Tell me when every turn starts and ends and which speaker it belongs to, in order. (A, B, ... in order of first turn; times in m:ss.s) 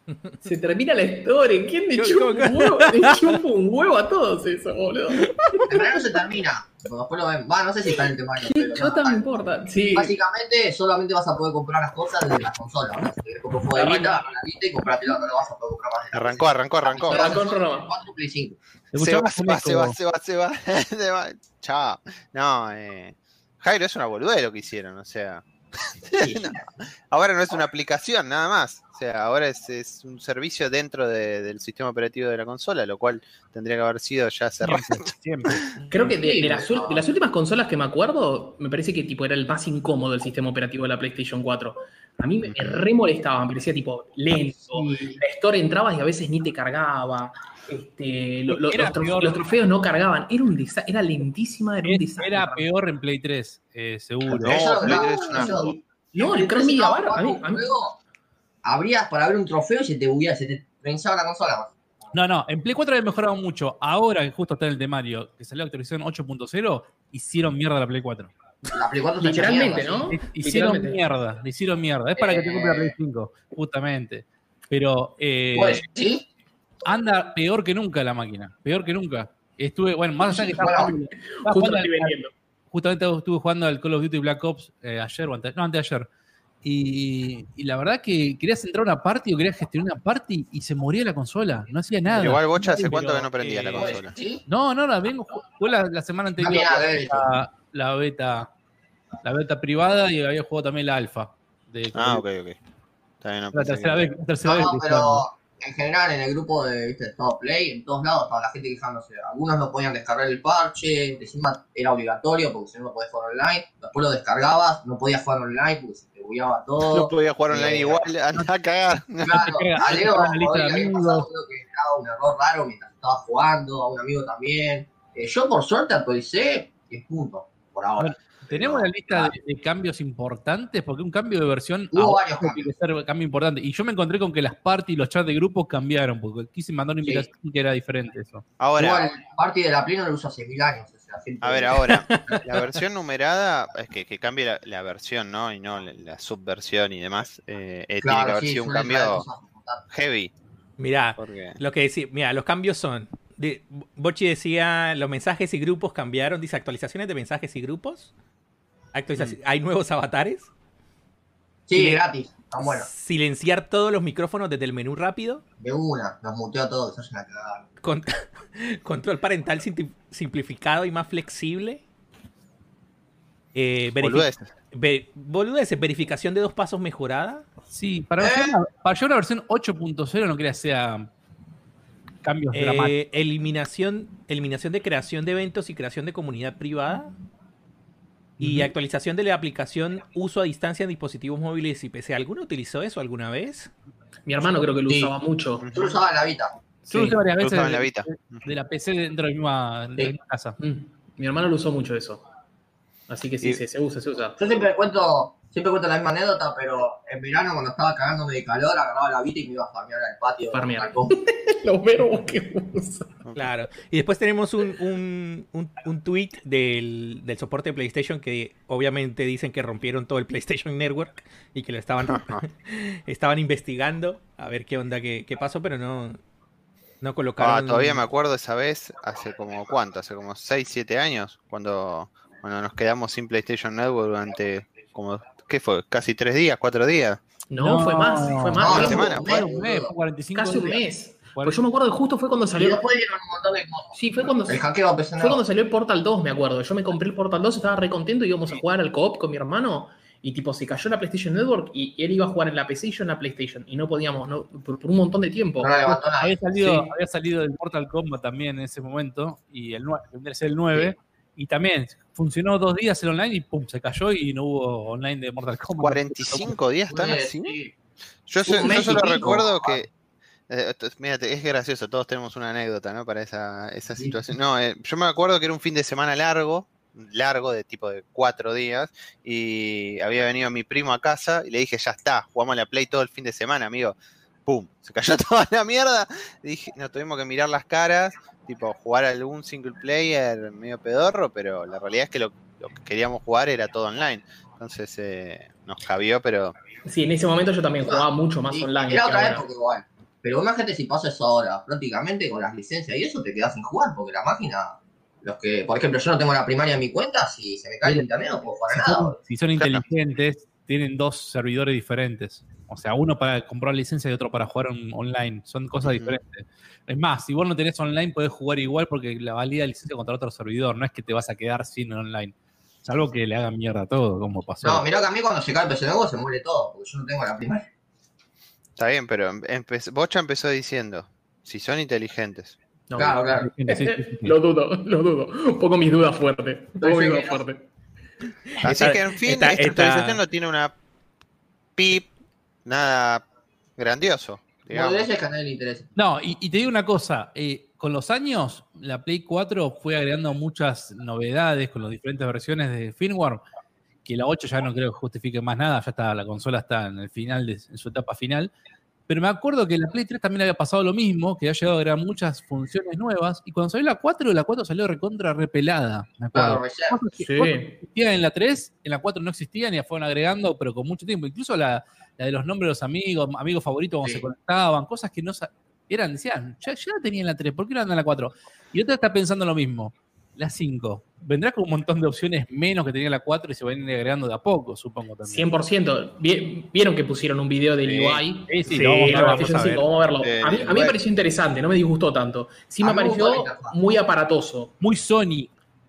0:00.4-0:06.0 A
0:02.0-0:03.4 B
0:05.4-0:05.7 B
0:05.7-0:09.3 C
0:08.4-0:10.2 A
0:09.9-0:18.6 C
0:13.7-0:14.2 A
0:16.1-0:17.4 D
0:17.0-0:17.9 A
0:18.9-0:20.0 E
0:19.0-0:25.4 D
0:26.1-0:26.6 D
0:26.2-0:26.6 C
0:27.1-0:35.7 D
0:34.6-0:36.0 E
0:35.9-0:52.7 A
0:36.2-0:37.1 C
0:42.5-0:42.8 D
0:44.7-0:45.2 E
0:48.5-0:49.4 E
0:51.8-0:55.6 E
0:54.3-0:58.0 C
0:54.4-0:55.7 D
0:56.1-0:57.7 A
0:58.6-1:01.7 C
1:02.1-1:08.3 E
1:08.7-1:10.1 C
1:09.2-1:11.0 A
1:10.1-1:15.8 E
1:12.2-1:13.0 C
1:15.5-1:16.2 C
1:16.9-1:22.1 E
1:20.2-1:20.9 C
1:20.7-1:22.3 A
1:22.7-1:26.1 E
1:26.6-1:33.6 E
1:32.1-1:34.2 D
1:33.4-1:33.9 B
1:33.8-1:34.4 C
1:34.5-1:38.5 E
1:36.4-1:37.3 C
1:39.2-1:42.3 E
1:41.9-1:42.6 D
1:43.2-1:44.1 D
1:43.5-1:45.2 E
1:44.4-1:58.1 C
1:56.9-1:59.4 D
1:59.2-2:01.3 E
1:59.2-2:09.3 C
2:08.0-2:18.4 E
2:11.9-2:12.7 C
2:18.6-2:19.2 D
2:18.8-2:22.0 C
2:21.4-2:29.2 D
2:22.1-2:22.4 B
2:28.0-2:29.8 C
2:29.9-2:30.3 D
2:30.8-2:38.1 B
2:31.2-2:31.6 D
2:38.9-2:40.5 B
2:41.7-2:42.9 C
2:41.8-2:42.0 B
2:42.6-2:45.4 B
2:45.6-2:47.6 C
2:47.8-2:51.8 B
2:53.6-2:57.5 B
2:54.0-2:54.5 D
2:57.7-3:01.1 E
2:58.2-2:58.5 C
3:02.2-3:02.9 E
3:02.5-3:07.1 B
3:08.4-3:08.7 E
3:08.4-3:13.7 B
3:14.3-3:15.9 A
3:14.9-3:15.1 C
3:15.7-3:16.5 C
3:16.9-3:20.6 E
3:16.9-3:17.2 A
3:17.4-3:18.5 D
3:20.6-3:22.2 A
3:23.1-3:24.4 A
3:24.4-3:31.2 C
3:30.5-3:33.1 A
3:33.2-3:33.5 D
3:33.4-3:46.2 B
3:42.1-3:42.4 D
3:47.0-3:48.0 B
3:47.4-3:57.2 D
3:57.5-3:59.2 A
3:57.6-4:01.6 E
3:58.6-3:59.9 C
3:58.7-3:59.2 D
4:00.4-4:02.8 A
4:02.6-4:05.4 C
4:03.9-4:04.6 A
4:05.2-4:16.0 A
4:15.6-4:16.9 C
4:16.2-4:26.6 E
4:25.8-4:27.6 D
4:26.9-4:27.8 C
4:28.3-4:29.9 D
4:28.4-4:29.8 C
4:30.5-4:56.5 D
4:56.9-4:59.4 A
4:57.8-5:09.2 C
5:08.7-5:24.8 E
5:09.6-5:09.8 D
5:15.8-5:16.2 D
5:24.6-5:27.7 C
5:28.8-5:32.6 D
5:32.9-5:37.7 A
5:33.0-5:33.5 C
5:33.4-5:34.4 E
5:36.8-5:37.4 C
5:38.6-5:40.7 D
5:38.6-5:40.2 B
5:41.8-5:42.1 D
5:42.6-5:43.2 D
5:43.8-5:45.1 D
5:44.7-5:45.9 C
5:46.0-5:53.4 E
5:54.0-5:58.5 E
5:59.1-6:25.5 E
6:06.3-6:07.0 C
6:07.2-6:07.8 A
6:25.2-6:34.7 A
6:27.8-6:28.2 D
6:28.5-6:29.5 E
6:28.7-6:29.9 B
6:30.2-6:31.0 D
6:32.8-6:33.8 C
6:34.8-6:35.5 E